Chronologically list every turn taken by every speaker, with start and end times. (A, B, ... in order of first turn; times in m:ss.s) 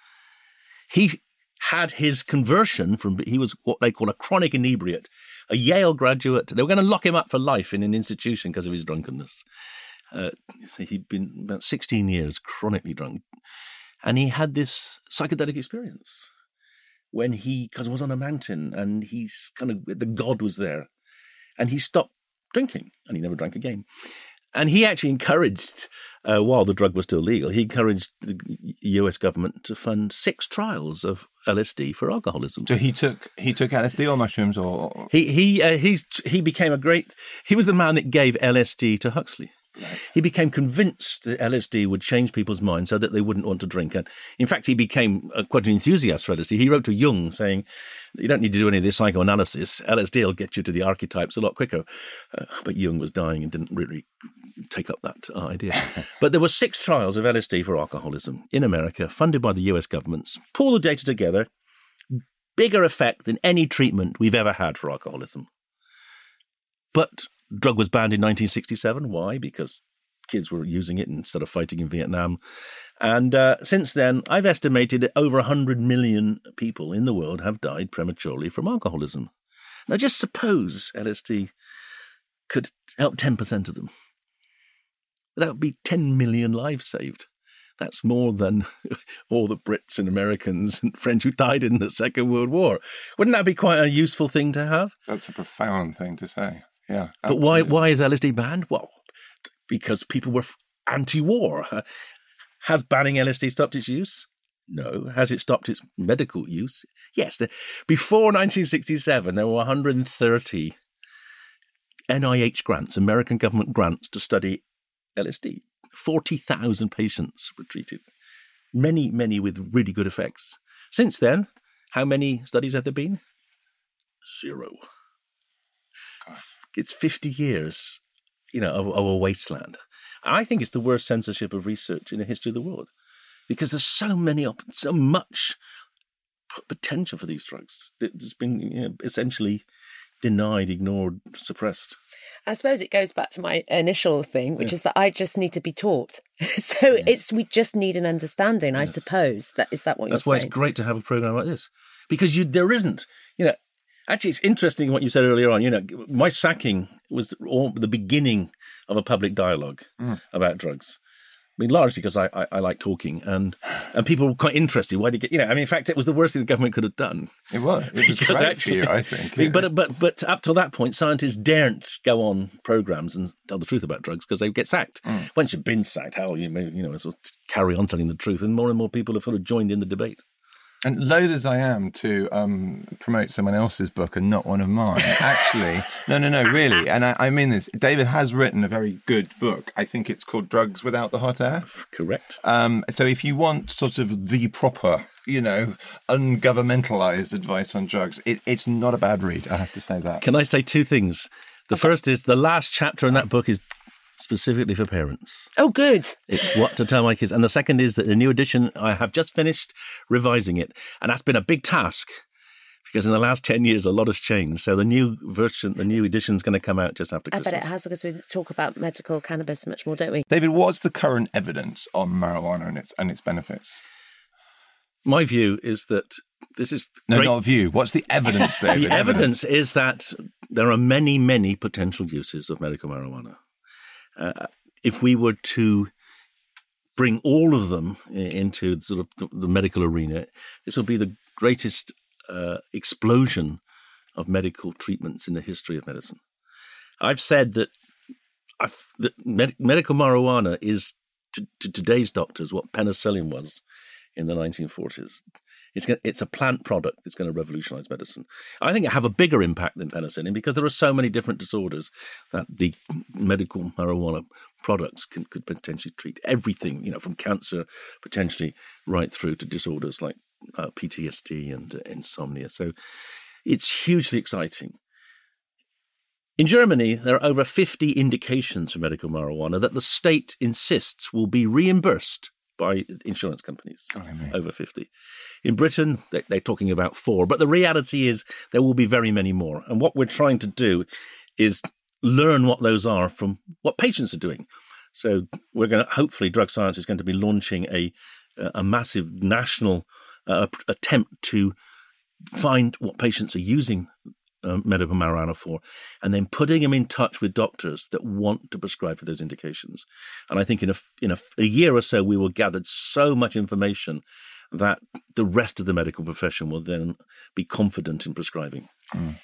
0:00.9-0:09.4 A
0:10.1-0:13.2 A
0:14.0-0:16.2 A
0:17.1-0:20.9 A
0:21.6-0:23.8 A
0:24.5-0:32.7 A
0:32.7-0:35.1 B
0:35.1-0:47.6 A
0:39.8-0:40.0 B
0:48.2-0:54.0 A
0:54.6-1:01.5 A
1:02.1-1:05.5 A
1:06.9-1:12.4 A
1:13.0-1:19.3 A
1:19.9-1:21.5 A
1:22.5-1:23.9 A
1:25.4-1:27.3 A
1:27.8-1:34.9 A
1:35.1-1:37.8 B
1:37.3-1:39.0 A
1:39.7-1:41.8 A
1:42.6-1:50.8 A
1:52.1-1:54.6 A
1:55.2-1:58.0 A
1:58.7-2:03.2 A
2:04.2-2:04.8 A
2:06.7-2:08.0 A
2:08.5-2:12.9 A
2:13.5-2:15.6 A
2:16.5-2:19.6 A
2:20.2-2:22.0 A
2:22.5-2:30.5 C
2:30.1-2:33.6 A
2:34.1-2:41.0 A
2:41.6-2:47.3 A
2:47.5-2:49.7 B
2:47.9-3:00.2 A
3:00.8-3:11.7 B
3:11.7-3:12.4 A
3:12.4-3:20.2 B
3:20.2-3:23.6 A
3:24.2-3:25.5 A
3:25.6-3:26.2 C
3:26.3-3:32.1 A
3:32.8-3:37.7 A
3:37.3-3:40.2 C
3:40.3-3:43.8 B
3:45.0-3:47.4 A
3:47.1-3:49.4 B
3:48.4-3:53.4 A
3:54.2-3:55.9 A
3:57.0-4:03.6 A
4:04.2-4:06.2 A
4:07.0-4:07.7 A
4:08.6-4:13.6 A
4:14.2-4:15.2 A
4:15.7-4:32.7 A
4:33.4-4:34.8 A
4:36.4-4:44.9 A
4:43.9-4:44.3 B
4:45.4-4:50.9 A
4:51.4-5:01.6 A
5:02.3-5:03.9 A
5:04.4-5:18.7 A